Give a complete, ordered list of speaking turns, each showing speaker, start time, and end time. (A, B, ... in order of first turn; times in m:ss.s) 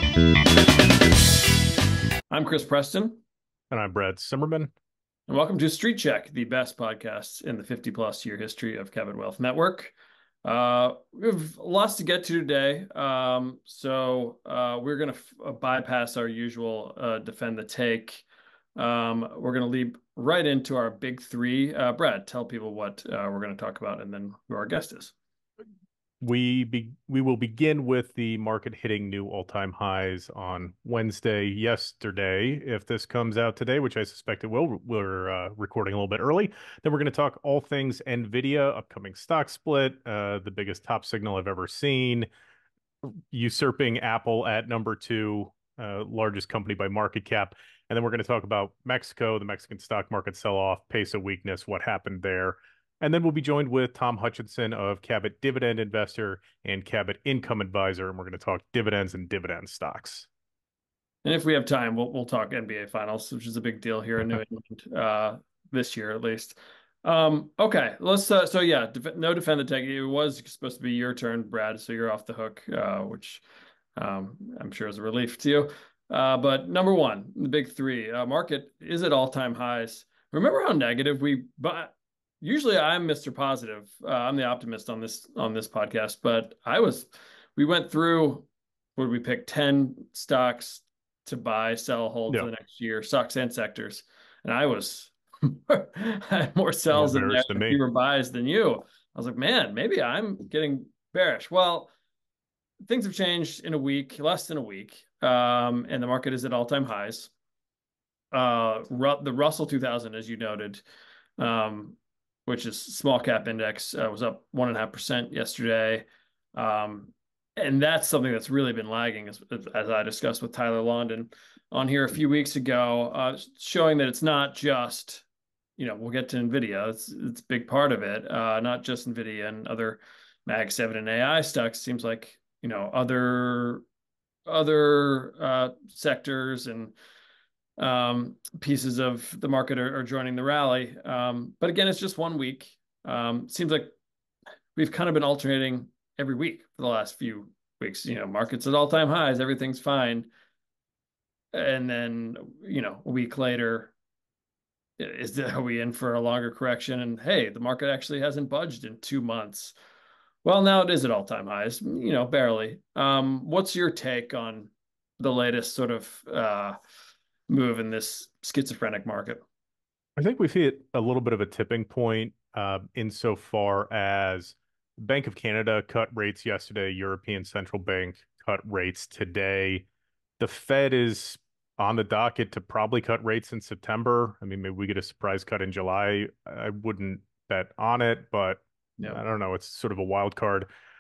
0:02.3-0:03.2 A
0:03.7-0:04.7 B
0:05.3-0:09.9 A
0:10.4-0:18.2 A
0:18.8-0:25.1 A
0:26.2-0:42.3 B
0:43.0-1:00.3 B
1:01.2-1:13.4 A
1:14.0-1:41.9 A
1:36.9-1:37.8 B
1:42.9-1:47.3 A
1:48.3-1:50.8 A
1:51.4-2:05.2 A
2:05.8-2:13.8 A
2:14.5-2:17.0 A
2:17.8-2:23.9 A
2:24.8-2:30.3 A
2:31.5-2:33.9 A
2:35.0-2:39.8 A
2:40.4-2:46.8 A
2:47.5-2:49.4 A
2:50.2-2:59.9 B
3:00.4-3:10.7 B